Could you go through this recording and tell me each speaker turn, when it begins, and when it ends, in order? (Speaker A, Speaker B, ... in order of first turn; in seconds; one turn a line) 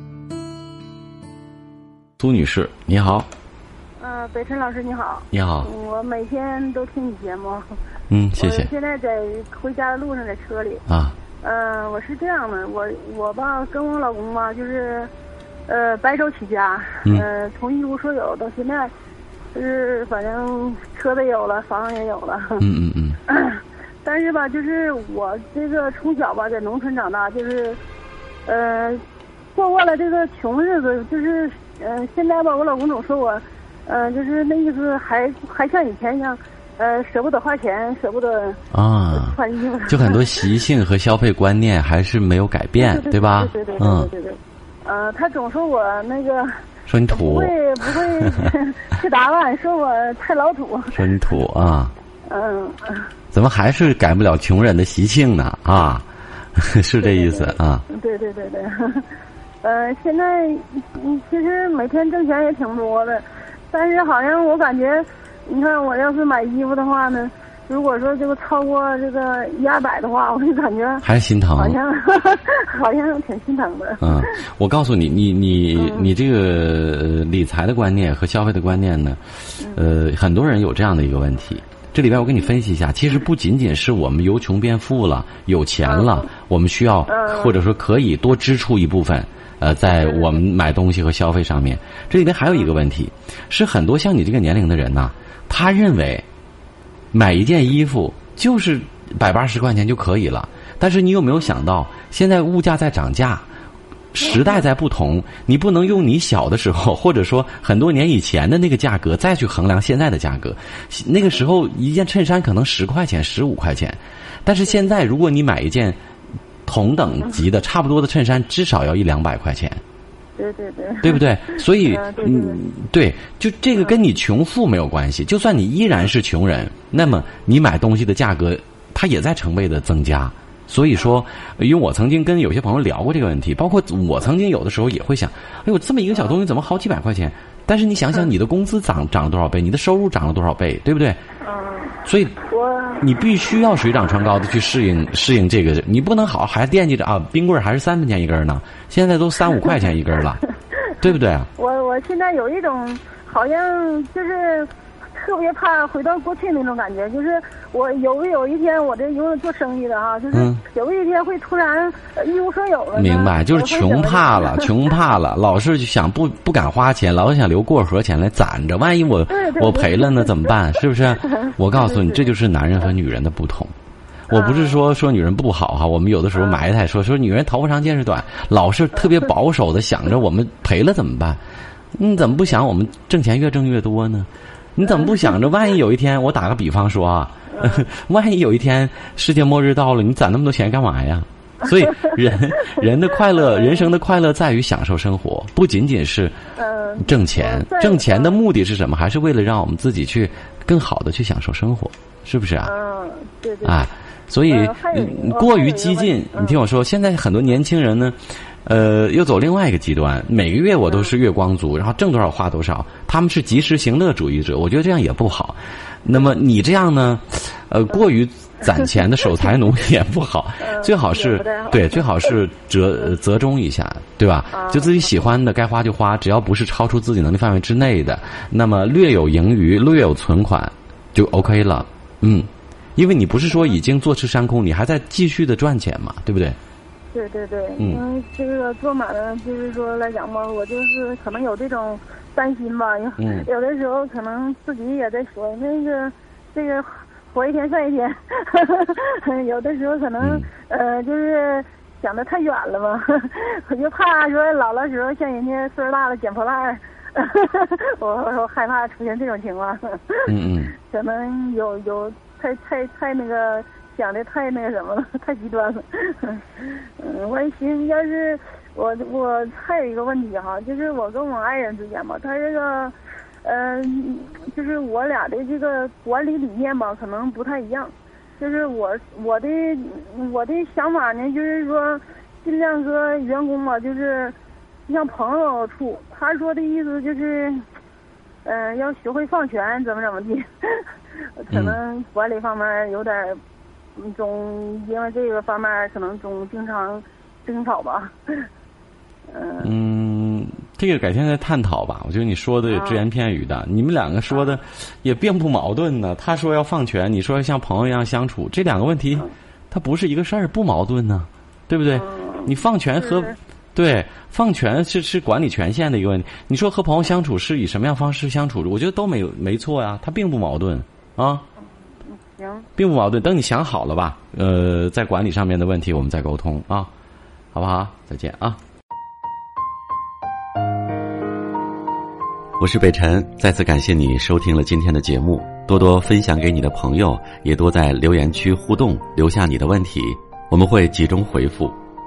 Speaker A: 2.2-3.3
Speaker B: 4.0-7.7
Speaker A: 5.3-5.7
Speaker A: 8.1-8.7
Speaker B: 8.4-10.8
Speaker A: 10.9-11.2
Speaker B: 11.4-15.1
Speaker B: 15.7-18.9
Speaker B: 19.5-22.7
Speaker A: 22.6-23.2
Speaker B: 23.3-27.8
Speaker B: 28.5-40.5
Speaker A: 38.7-44.1
Speaker B: 42.8-51.0
Speaker A: 46.9-48.5
Speaker A: 50.9-51.9
Speaker B: 52.2-53.1
Speaker A: 53.3-56.0
Speaker A: 56.6-57.9
Speaker B: 57.0-74.3
Speaker A: 71.0-71.8
Speaker A: 74.0-96.2
Speaker B: 75.8-76.1
Speaker B: 79.6-79.9
Speaker B: 85.8-86.3
Speaker B: 87.1-87.6
Speaker B: 89.9-90.4
Speaker A: 97.1-103.4
Speaker A: 104.1-116.0
Speaker A: 116.7-119.8
Speaker B: 120.4-122.6
Speaker A: 121.0-141.2
Speaker B: 141.4-143.1
Speaker A: 142.1-142.4
Speaker A: 143.0-150.4
Speaker A: 151.0-151.5
Speaker B: 151.6-164.9
Speaker A: 160.3-160.6
Speaker A: 162.9-173.7
Speaker B: 169.3-172.3
Speaker A: 174.3-181.4
Speaker B: 174.3-174.8
Speaker B: 176.4-176.7
Speaker A: 181.9-196.3
Speaker B: 187.5-187.9
Speaker B: 192.7-193.9
Speaker B: 196.6-198.4
Speaker A: 197.0-202.7
Speaker B: 202.6-203.9
Speaker A: 203.6-236.6
Speaker B: 204.5-206.6
Speaker B: 220.6-222.3
Speaker B: 224.5-225.1
Speaker B: 237.1-284.4
Speaker A: 237.8-238.0
Speaker A: 243.2-243.5
Speaker A: 250.2-250.5
Speaker A: 260.3-260.7
Speaker B: 284.9-287.6
Speaker B: 288.4-293.4
Speaker A: 291.5-291.8
Speaker B: 294.0-298.5
Speaker B: 299.3-299.7
Speaker A: 299.6-321.4
Speaker B: 302.7-303.0
Speaker B: 304.3-304.6
Speaker B: 311.9-313.4
Speaker B: 322.0-322.7
Speaker A: 322.8-326.9
Speaker A: 327.5-328.6
Speaker C: 332.6-341.8